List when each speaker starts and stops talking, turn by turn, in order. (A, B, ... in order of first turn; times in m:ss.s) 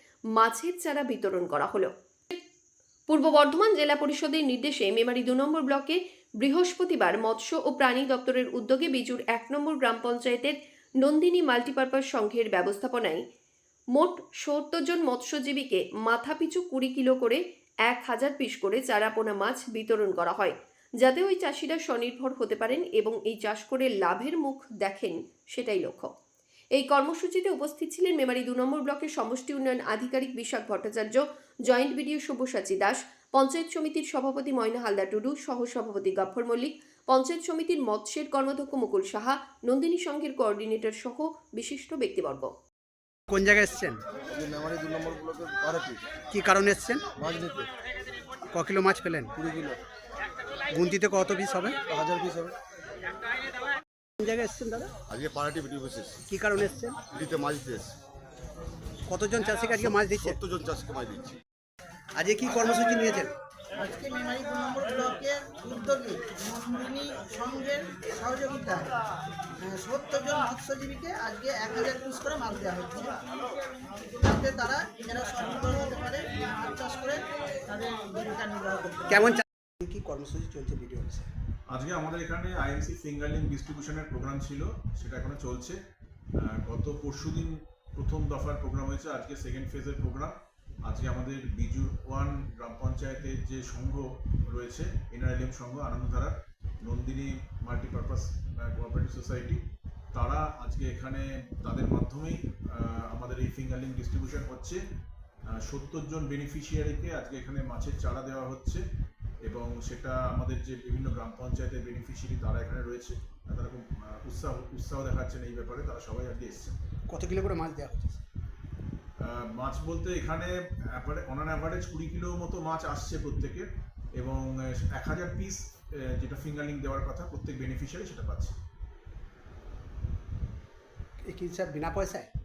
0:00.4-0:02.4 A
0:03.1-0:13.2 A
0:14.0-0:26.1 A
0:26.8-0:42.5 A
0:43.3-0:44.0 B
0:44.3-0:46.0 C
0:46.3-0:47.1 B
0:47.2-0:47.7 C
0:48.5-0:49.4 B
0:49.4-0:49.8 C
0:50.7-0:51.8 B
0:51.9-0:52.6 C
0:54.2-0:54.9 B
0:55.1-0:56.2 C
0:56.3-0:57.0 B
0:57.1-0:58.0 C
0:59.1-1:00.4 B
1:00.0-1:01.4 C
1:02.2-1:03.3 B
1:03.8-1:08.9 D
1:09.6-1:13.2 D
1:14.2-1:19.2 D
1:19.1-1:21.3 B
1:21.7-1:25.8 E
1:26.4-1:39.6 E
1:40.1-1:44.8 E
1:45.6-1:48.8 E
1:49.4-1:56.8 E
1:57.1-1:58.2 B
1:59.2-2:08.6 E
2:11.2-2:12.3 B